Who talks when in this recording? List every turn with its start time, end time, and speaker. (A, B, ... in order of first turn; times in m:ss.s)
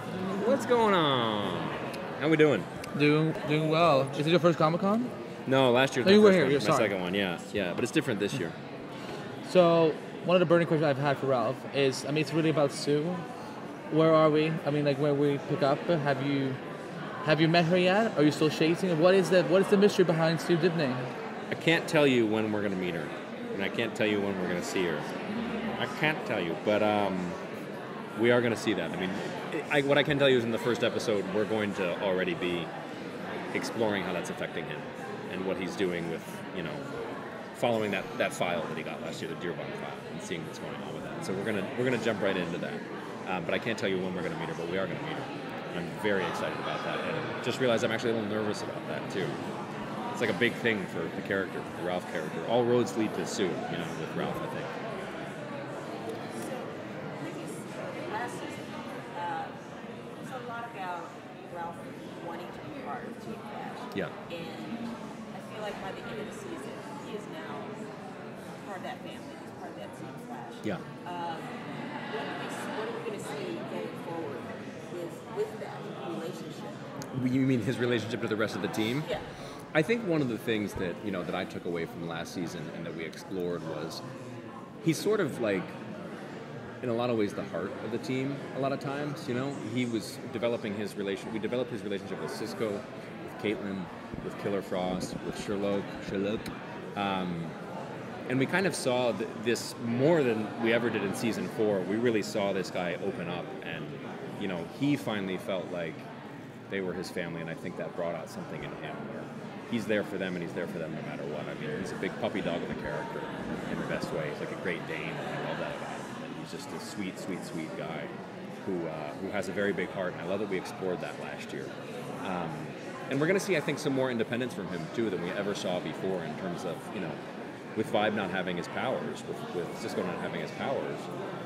0:00.3-0:02.7 A
0:02.9-0:05.1 B
0:05.5-0:08.5 A
0:06.0-0:06.9 B
0:09.4-0:13.2 B
0:13.9-0:16.6 B
0:17.2-0:21.1 B
0:21.5-0:25.1 A
0:25.8-0:27.4 A
0:28.2-0:32.7 A
0:33.5-0:36.8 A
0:37.5-0:49.4 A
0:50.1-0:54.7 A
0:56.3-0:59.5 C
1:00.2-1:07.8 C
1:08.6-1:11.5 C
1:12.1-1:16.8 C
1:17.1-1:19.1 A
1:19.7-1:24.0 A
1:24.8-1:25.7 A
1:26.8-1:37.5 A
1:38.3-1:46.1 A
1:46.7-2:07.2 A
2:07.8-2:11.1 A